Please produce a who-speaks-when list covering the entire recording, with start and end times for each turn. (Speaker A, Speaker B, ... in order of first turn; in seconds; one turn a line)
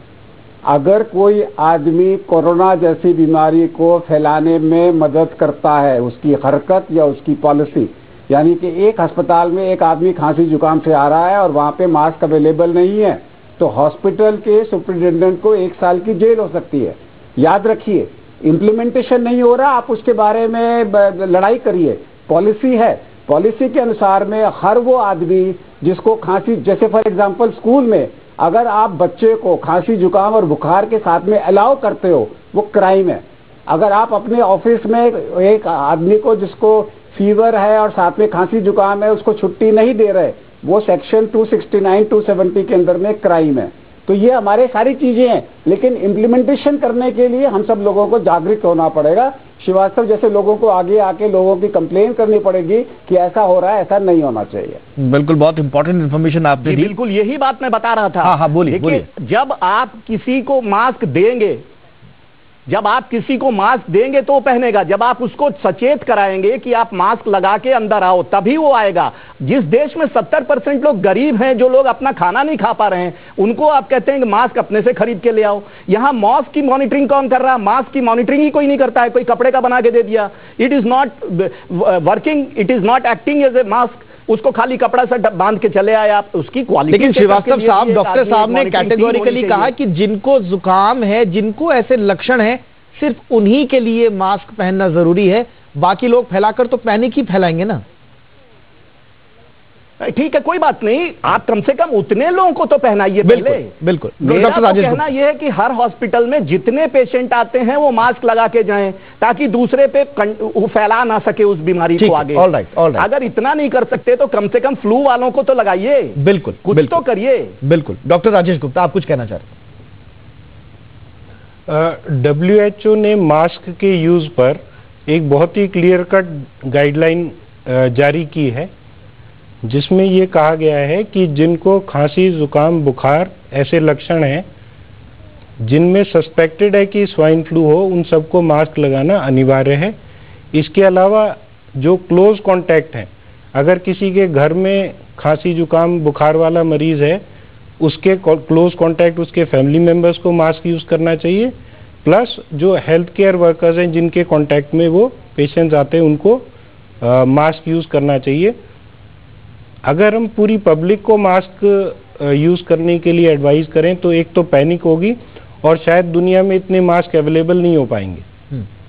Speaker A: 0.7-54.8
Speaker B: 55.0-56.9
Speaker C: 56.6-61.6
Speaker B: 58.2-59.0
Speaker C: 62.7-89.7
Speaker B: 86.9-97.8
Speaker C: 100.0-103.7
Speaker B: 103.2-105.0
Speaker C: 104.2-112.5
Speaker B: 112.0-113.0
Speaker C: 113.0-117.6
Speaker B: 116.2-117.0
Speaker B: 117.6-119.5
Speaker D: 121.7-128.7
Speaker D: 129.6-134.4
Speaker D: 135.6-139.9
Speaker D: 140.5-147.2
Speaker D: 147.8-156.5
Speaker D: 157.0-158.5
Speaker D: 159.8-168.2